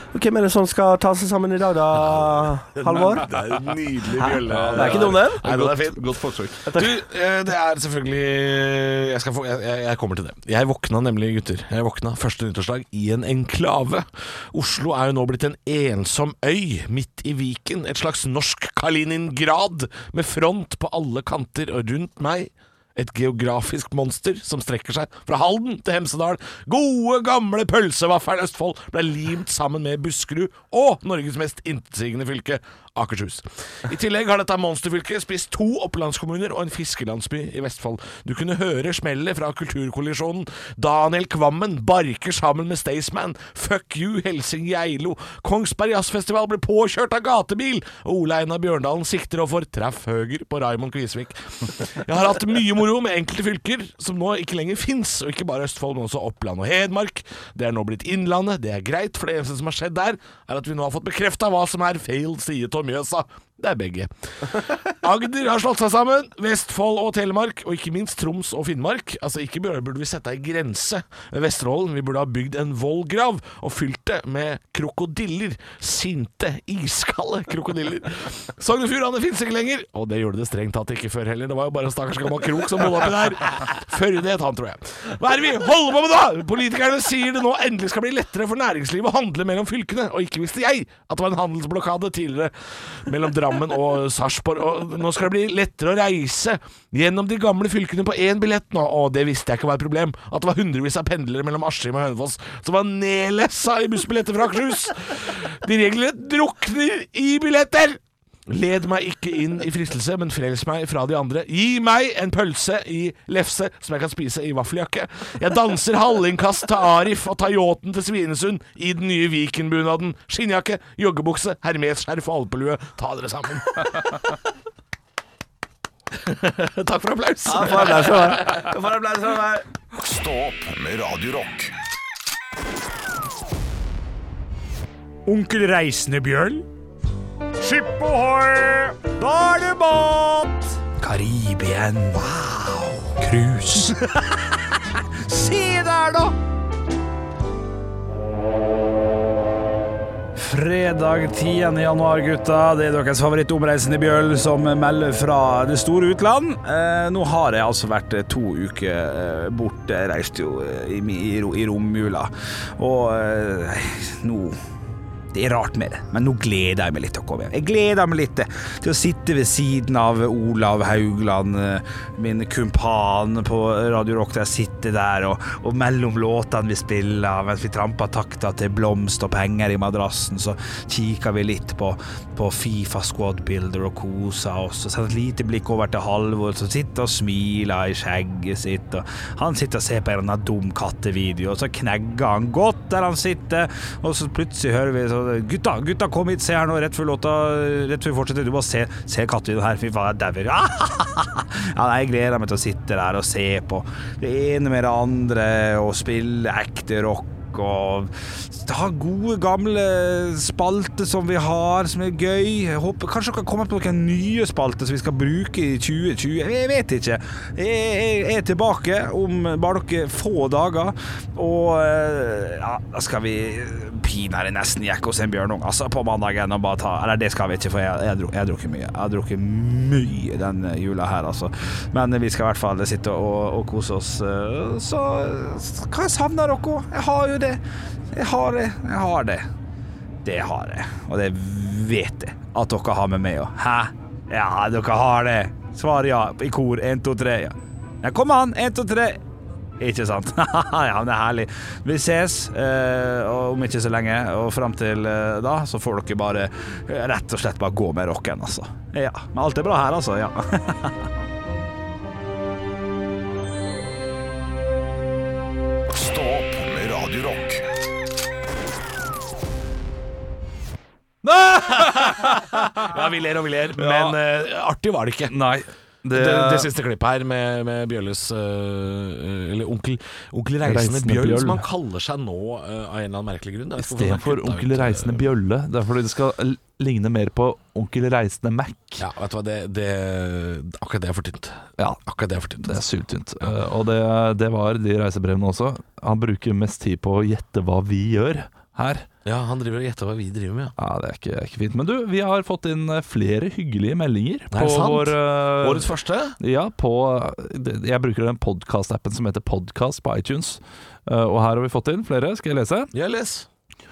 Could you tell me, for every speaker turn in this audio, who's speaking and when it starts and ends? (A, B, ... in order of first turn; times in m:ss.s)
0:00.1-0:03.2 A
0:02.0-0:06.0 B
0:04.2-0:05.5 A
0:04.4-0:06.7 C
0:06.7-0:06.9 A
0:06.7-2:04.2 B
2:06.1-2:08.7 B
2:07.5-2:09.6 A
2:10.0-2:11.7 D
2:15.2-2:16.6 E
2:17.6-2:26.4 E
2:30.4-2:44.6 E
2:45.3-3:59.5 E
4:00.2-4:09.2 E
4:09.8-4:20.9 E
4:25.9-4:27.6 D
4:31.2-4:32.8 C
4:31.7-4:35.3 B
4:33.7-4:34.2 C
4:35.3-4:36.7 C
4:36.1-4:45.2 B
4:40.6-4:41.6 C
4:43.8-4:49.0 C
4:49.0-4:52.8 B
4:52.6-4:59.1 C
4:59.2-5:00.7 B
5:00.8-5:12.9 C
5:04.5-5:06.4 B
5:12.9-5:13.5 B